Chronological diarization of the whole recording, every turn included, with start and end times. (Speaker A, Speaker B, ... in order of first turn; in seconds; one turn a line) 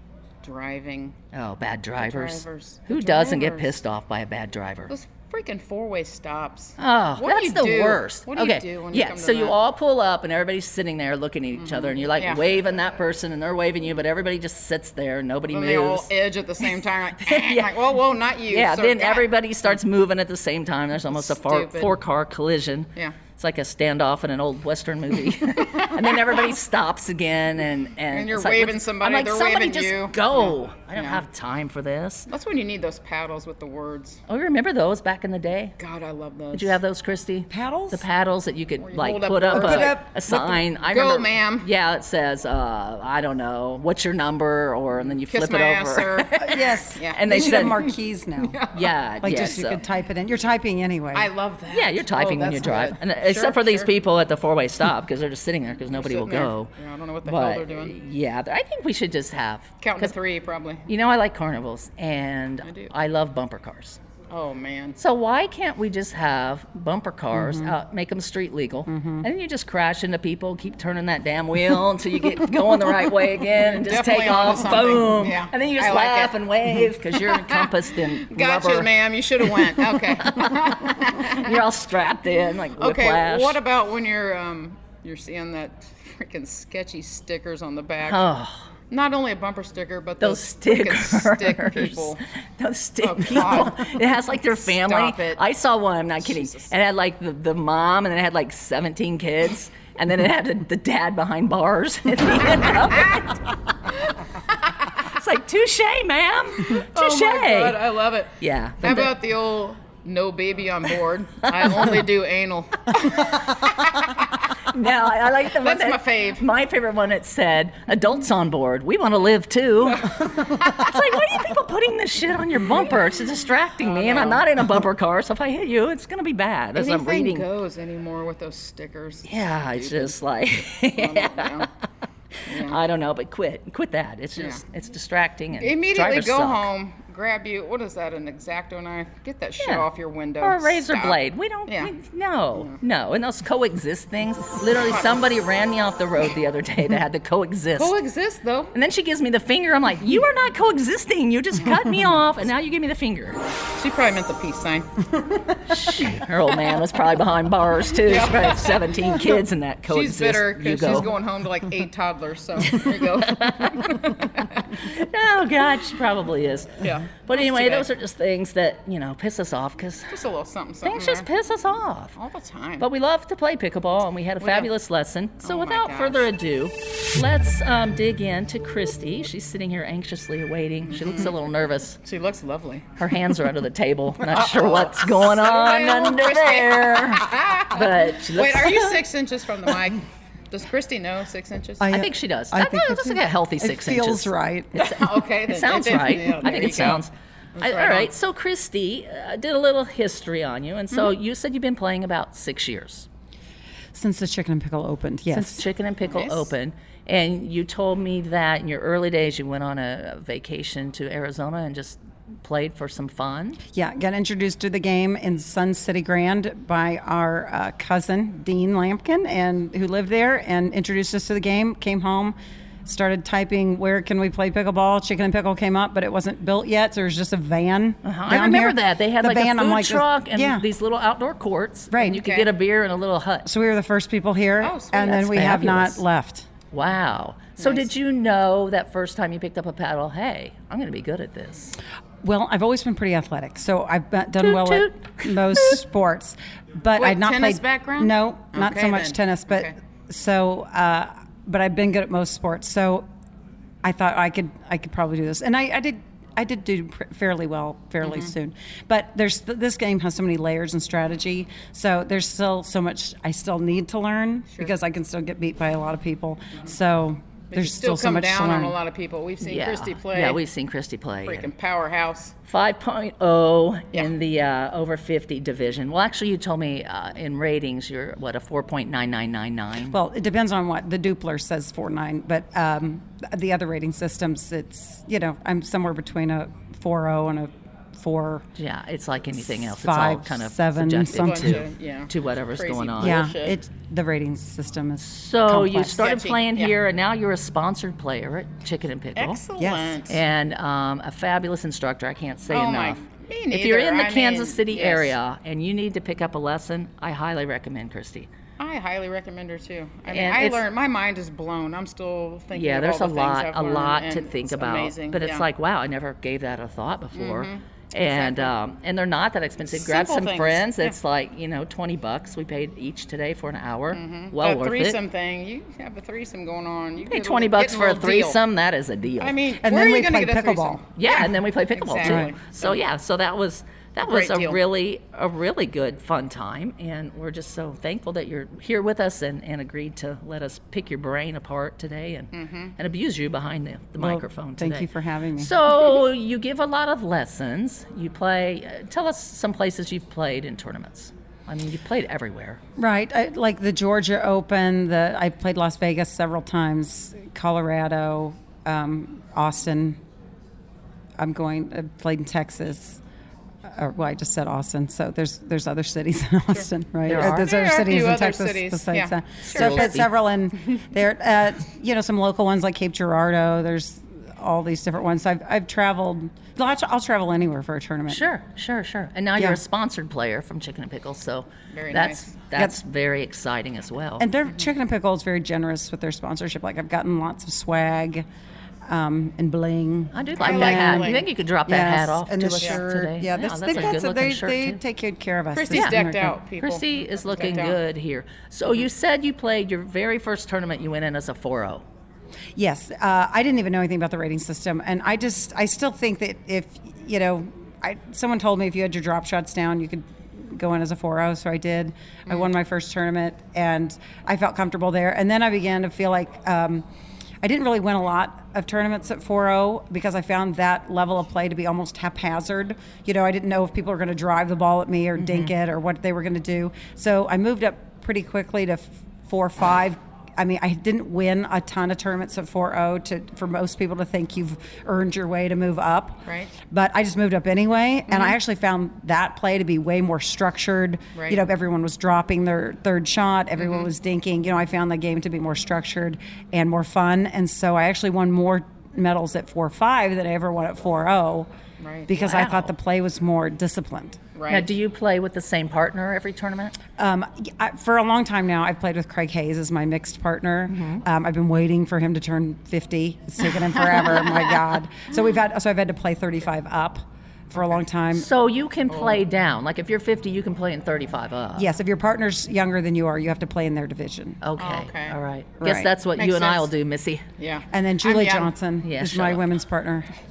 Speaker A: 0.4-1.1
Speaker B: 1.3-4.9
Speaker A: 2.0-3.8
Speaker A: 4.9-9.6
Speaker B: 6.8-16.1
Speaker A: 11.6-12.4
Speaker A: 15.5-19.3
Speaker B: 17.2-17.7
Speaker B: 18.5-32.3
Speaker A: 21.1-21.9
Speaker A: 25.4-26.5
Speaker A: 28.1-31.2
Speaker A: 32.3-34.2
Speaker B: 34.3-35.7
Speaker A: 35.8-36.8
Speaker B: 36.5-47.9
Speaker C: 37.5-38.0
Speaker A: 38.8-41.7
Speaker C: 39.5-40.1
Speaker A: 45.1-47.9
Speaker C: 46.4-48.6
Speaker A: 48.4-48.9
Speaker B: 48.7-49.8
Speaker C: 49.2-51.3
Speaker A: 51.1-53.9
Speaker B: 51.7-56.7
Speaker A: 55.9-57.9
Speaker B: 57.2-60.1
Speaker A: 59.8-60.9
Speaker B: 60.9-64.0
Speaker A: 62.6-62.9
Speaker A: 64.3-65.0
Speaker B: 65.0-83.6
Speaker C: 67.3-67.8
Speaker C: 68.9-69.2
Speaker A: 73.7-77.7
Speaker A: 78.2-81.5
Speaker A: 82.8-88.2
Speaker B: 88.0-88.6
Speaker A: 88.9-92.2
Speaker B: 90.2-103.4
Speaker A: 93.0-95.4
Speaker A: 96.2-96.7
Speaker A: 104.5-104.9
Speaker B: 105.0-107.8
Speaker A: 106.7-114.5
Speaker B: 108.4-109.1
Speaker B: 111.6-111.8
Speaker B: 114.7-127.5
Speaker A: 115.5-116.4
Speaker A: 120.0-120.9
Speaker A: 123.8-124.5
Speaker A: 126.7-130.2
Speaker B: 129.3-131.7
Speaker A: 130.8-131.7
Speaker A: 132.4-132.8
Speaker B: 132.5-136.7
Speaker A: 134.4-134.6
Speaker A: 135.6-141.9
Speaker B: 139.6-139.9
Speaker B: 140.4-147.9
Speaker A: 147.8-148.7
Speaker B: 148.7-153.4
Speaker A: 153.8-155.3
Speaker B: 155.7-161.1
Speaker A: 156.0-156.8
Speaker A: 157.9-164.7
Speaker B: 162.7-170.1
Speaker A: 166.8-167.9
Speaker A: 170.1-171.3
Speaker B: 170.8-172.1
Speaker A: 172.2-172.8
Speaker B: 172.8-182.0
Speaker A: 174.4-174.7
Speaker A: 175.4-176.3
Speaker A: 180.8-181.3
Speaker A: 182.0-182.8
Speaker B: 183.0-189.0
Speaker A: 184.2-191.9
Speaker C: 191.8-194.9
Speaker B: 191.9-203.1
Speaker A: 194.8-197.0
Speaker A: 197.6-198.1
Speaker C: 203.9-205.7
Speaker B: 205.3-213.6
Speaker A: 206.0-206.5
Speaker C: 213.7-230.6
Speaker B: 228.0-233.5
Speaker C: 231.9-232.2
Speaker A: 232.0-232.5
Speaker C: 233.4-236.4
Speaker A: 234.6-235.2
Speaker B: 235.0-236.0
Speaker B: 236.7-241.8
Speaker A: 237.6-237.9
Speaker C: 242.2-253.1
Speaker B: 244.4-245.8
Speaker A: 246.9-249.7
Speaker C: 253.8-268.8
Speaker A: 258.0-258.3
Speaker A: 267.5-270.4
Speaker B: 269.4-271.5
Speaker A: 271.2-272.3
Speaker B: 272.5-280.0
Speaker C: 279.9-288.4
Speaker B: 288.6-293.2
Speaker C: 289.3-291.6
Speaker A: 291.1-293.6
Speaker C: 293.0-296.0
Speaker B: 295.0-299.4
Speaker A: 295.8-296.7
Speaker A: 299.1-300.2
Speaker C: 299.6-300.0
Speaker B: 300.1-308.3
Speaker A: 302.5-305.1
Speaker A: 308.6-315.4
Speaker B: 310.1-310.6
Speaker B: 312.5-325.0
Speaker A: 317.1-318.5
Speaker A: 319.7-320.9
Speaker A: 323.9-328.4
Speaker B: 327.1-329.4
Speaker A: 329.2-332.8
Speaker C: 329.6-330.8
Speaker B: 331.0-352.6
Speaker C: 332.0-332.3
Speaker A: 334.0-334.6
Speaker A: 342.3-342.7
Speaker C: 344.0-345.5
Speaker C: 352.8-360.0
Speaker C: 361.2-363.0
Speaker C: 363.6-378.3
Speaker B: 367.1-367.5
Speaker A: 367.1-369.9
Speaker B: 369.4-370.1
Speaker B: 378.1-384.2
Speaker C: 379.4-379.6
Speaker A: 381.7-382.3
Speaker C: 384.2-388.3
Speaker C: 388.9-396.4
Speaker B: 390.1-394.8
Speaker A: 390.4-391.3
Speaker A: 395.5-397.8
Speaker B: 395.7-396.0
Speaker B: 396.6-401.8
Speaker C: 402.6-416.9
Speaker C: 417.4-451.5
Speaker B: 425.2-425.5
Speaker A: 436.2-436.5
Speaker A: 441.1-441.4
Speaker A: 443.6-443.9
Speaker A: 451.8-452.6
Speaker C: 452.1-454.2
Speaker A: 454.3-454.7
Speaker B: 454.5-456.7
Speaker C: 457.0-468.3
Speaker B: 460.7-461.0
Speaker B: 468.1-471.7
Speaker A: 468.9-469.2
Speaker C: 471.5-474.4
Speaker B: 474.4-477.2
Speaker A: 474.6-475.1
Speaker C: 475.6-475.9
Speaker A: 476.1-476.7
Speaker A: 477.4-478.5
Speaker C: 477.7-480.1
Speaker B: 478.8-479.4